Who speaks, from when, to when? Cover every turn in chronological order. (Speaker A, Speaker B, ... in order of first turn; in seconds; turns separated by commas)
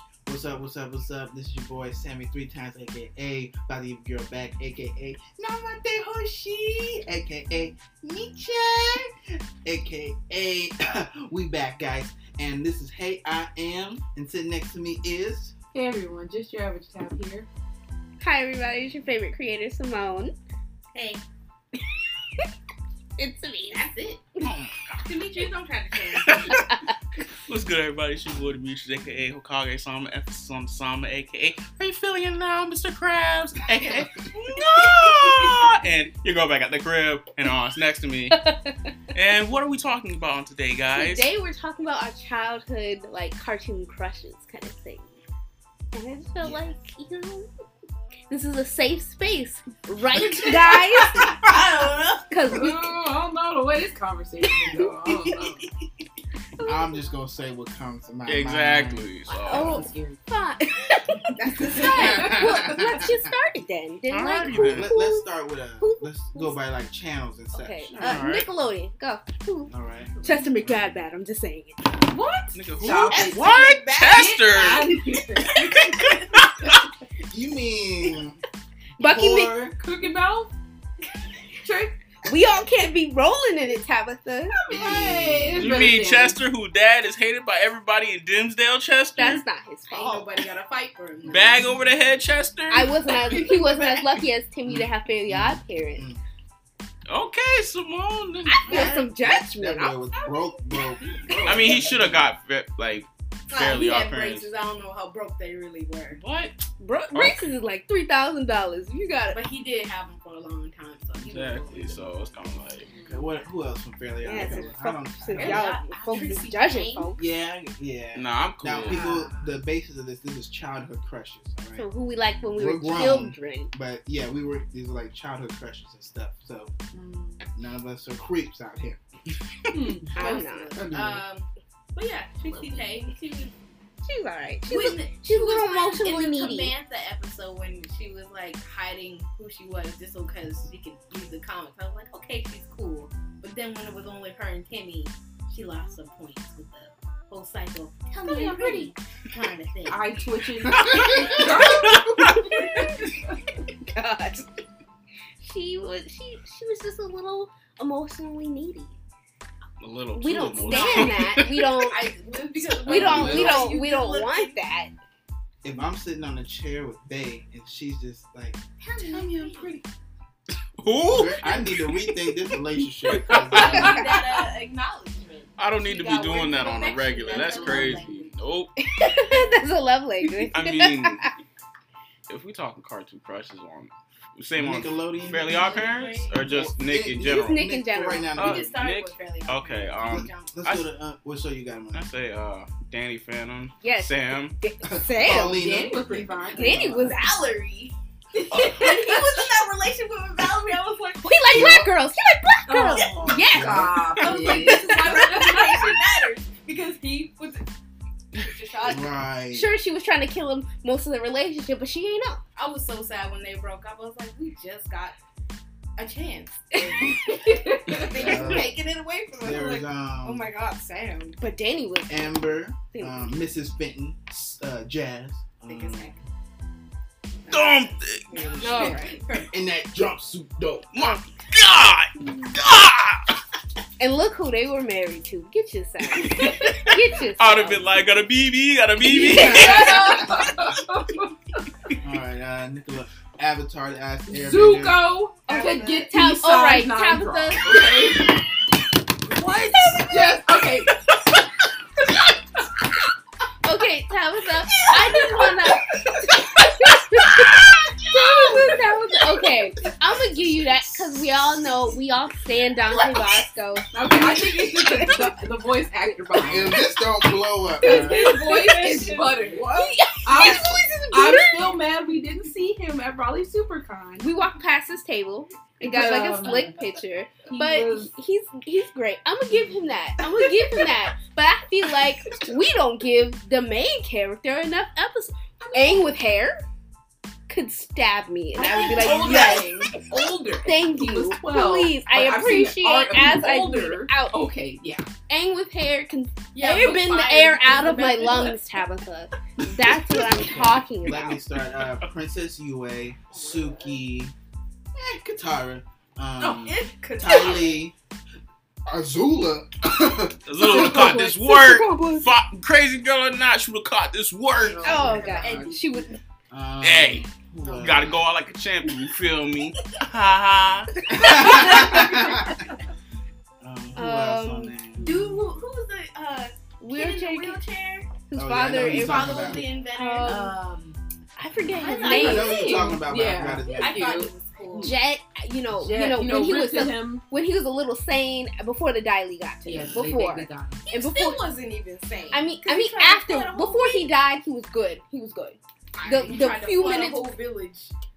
Speaker A: 0.2-15.5, Speaker B: 15.7-17.5, Speaker C: 18.2-20.3, Speaker D: 20.9-21.2, Speaker C: 23.2-23.9, Speaker D: 23.7-24.2, Speaker A: 24.4-25.0, Speaker D: 25.0-26.6, Speaker E: 26.1-26.8, Speaker E: 27.4-38.5, Speaker C: 38.3-38.7, Speaker E: 39.1-41.2, Speaker C: 40.9-45.1, Speaker C: 45.9-47.5, Speaker A: 46.4-46.7, Speaker C: 48.3-51.3, Speaker D: 51.2-52.3, Speaker C: 52.3-53.0, Speaker B: 52.5-55.5, Speaker C: 54.4-54.8, Speaker C: 56.6-56.9, Speaker A: 56.6-59.1, Speaker E: 58.2-59.8, Speaker B: 59.4-60.2, Speaker C: 59.5-65.3, Speaker D: 61.4-62.1, Speaker A: 61.7-63.2, Speaker B: 61.8-62.3, Speaker E: 64.1-64.9, Speaker A: 64.5-68.2, Speaker C: 65.8-66.6, Speaker C: 67.5-71.8, Speaker E: 67.9-68.5, Speaker A: 69.7-70.9, Speaker B: 72.0-73.5, Speaker E: 72.5-76.8, Speaker D: 73.1-74.4, Speaker B: 74.0-76.8, Speaker A: 77.3-78.4, Speaker C: 79.0-79.5, Speaker A: 79.0-79.8, Speaker B: 79.8-80.5, Speaker B: 81.6-81.9, Speaker C: 82.2-84.6, Speaker B: 84.6-86.4, Speaker A: 84.7-85.8, Speaker E: 85.5-89.4, Speaker C: 89.2-90.3, Speaker D: 89.9-91.7, Speaker A: 91.2-91.8, Speaker E: 91.3-94.0, Speaker C: 92.7-96.1, Speaker A: 94.7-96.2, Speaker E: 97.1-98.9, Speaker C: 98.5-100.0, Speaker A: 98.7-102.3, Speaker B: 101.0-101.8, Speaker D: 101.2-101.8, Speaker E: 101.4-104.5, Speaker D: 103.5-106.2, Speaker B: 106.1-106.5, Speaker C: 106.8-109.4, Speaker E: 107.1-107.4, Speaker D: 109.3-112.3, Speaker E: 111.2-112.9, Speaker A: 113.1-115.7, Speaker C: 114.2-117.2, Speaker D: 115.3-117.2, Speaker A: 117.2-121.8, Speaker E: 118.1-119.1, Speaker D: 118.8-119.6, Speaker C: 121.8-123.7, Speaker A: 122.5-126.7, Speaker B: 126.9-127.4, Speaker A: 127.5-129.0, Speaker B: 129.7-131.0, Speaker D: 130.1-133.5, Speaker C: 130.1-130.7, Speaker A: 130.8-131.2, Speaker B: 132.5-132.8, Speaker C: 134.0-136.7, Speaker D: 134.7-150.0, Speaker C: 148.2-148.9, Speaker B: 149.9-152.1, Speaker E: 150.7-152.6, Speaker C: 151.9-152.9, Speaker C: 153.9-154.5, Speaker C: 155.4-158.9, Speaker E: 159.8-161.8, Speaker C: 160.1-162.0, Speaker D: 160.6-161.2, Speaker D: 161.8-164.6, Speaker C: 162.5-164.9, Speaker A: 162.9-163.7, Speaker B: 162.9-163.6, Speaker A: 165.6-169.8, Speaker D: 168.8-169.8, Speaker E: 170.8-171.9, Speaker A: 171.1-174.1, Speaker D: 173.3-178.3, Speaker E: 173.3-173.9, Speaker C: 173.3-174.0, Speaker E: 175.6-178.7, Speaker C: 177.3-178.0, Speaker C: 178.9-181.3, Speaker D: 180.2-180.5, Speaker E: 180.5-181.3, Speaker E: 182.3-187.6, Speaker A: 184.6-185.8, Speaker D: 185.2-186.4, Speaker A: 186.4-188.7, Speaker C: 187.2-188.4, Speaker D: 188.3-190.6, Speaker E: 188.3-190.9, Speaker A: 190.1-192.1, Speaker E: 191.9-194.6, Speaker C: 193.8-195.7, Speaker A: 194.8-196.1, Speaker B: 195.3-197.1, Speaker C: 196.6-197.6, Speaker D: 197.6-201.4, Speaker C: 201.2-203.9, Speaker A: 201.5-201.9, Speaker B: 202.7-205.9, Speaker A: 203.0-204.0, Speaker D: 204.2-207.7, Speaker D: 208.3-209.1, Speaker A: 208.9-209.7, Speaker C: 209.5-212.4, Speaker D: 212.6-215.1, Speaker D: 216.0-221.4, Speaker C: 216.7-217.8, Speaker A: 218.0-218.8, Speaker B: 218.2-218.6, Speaker A: 219.4-220.4, Speaker C: 221.4-222.4, Speaker A: 222.1-226.1, Speaker C: 222.9-223.5, Speaker D: 225.7-226.2, Speaker D: 227.4-229.5, Speaker E: 227.5-228.7, Speaker C: 228.6-229.2, Speaker B: 228.6-229.2, Speaker A: 229.5-230.9, Speaker E: 230.9-233.3, Speaker C: 231.0-231.2, Speaker C: 234.0-237.9, Speaker E: 237.4-240.2, Speaker C: 239.2-240.2, Speaker B: 239.2-241.6, Speaker A: 239.3-240.1, Speaker A: 242.0-245.1, Speaker B: 244.2-248.4, Speaker C: 245.5-247.8, Speaker B: 249.2-251.1, Speaker C: 253.6-257.6, Speaker D: 254.9-255.5, Speaker C: 258.1-265.3, Speaker B: 258.3-258.6, Speaker D: 262.9-263.2, Speaker B: 263.9-266.9, Speaker A: 266.4-268.2, Speaker B: 267.8-274.2, Speaker D: 267.8-269.8, Speaker C: 268.4-269.0, Speaker C: 269.6-271.6, Speaker C: 274.2-286.6, Speaker B: 275.8-276.8, Speaker B: 277.5-278.1, Speaker B: 285.6-286.1, Speaker C: 287.5-289.8, Speaker D: 288.6-290.0, Speaker B: 288.6-295.1, Speaker C: 290.6-294.4, Speaker C: 295.3-301.4, Speaker D: 296.5-298.6, Speaker A: 300.2-304.3, Speaker D: 303.3-304.0, Speaker A: 304.9-307.9, Speaker D: 306.4-307.8, Speaker A: 308.9-311.2, Speaker E: 310.4-315.1, Speaker C: 310.6-312.3, Speaker B: 314.6-315.8, Speaker C: 314.8-316.1, Speaker D: 315.0-315.9, Speaker A: 316.5-318.1, Speaker E: 316.8-320.9, Speaker D: 317.6-318.1, Speaker A: 321.1-322.6, Speaker C: 321.1-321.8, Speaker D: 321.2-322.8, Speaker B: 321.6-321.9, Speaker A: 323.6-325.5, Speaker C: 323.9-324.7, Speaker D: 325.0-328.1, Speaker C: 326.8-327.6, Speaker C: 328.3-330.6, Speaker A: 328.3-329.7, Speaker D: 328.7-331.0, Speaker C: 331.4-333.0, Speaker B: 331.7-334.9, Speaker D: 331.8-332.6, Speaker A: 332.0-334.1, Speaker D: 333.6-334.9, Speaker C: 334.7-341.4, Speaker B: 335.7-337.2, Speaker B: 339.6-340.8, Speaker D: 340.9-344.1, Speaker C: 342.3-347.3, Speaker B: 345.9-346.6, Speaker D: 346.2-347.9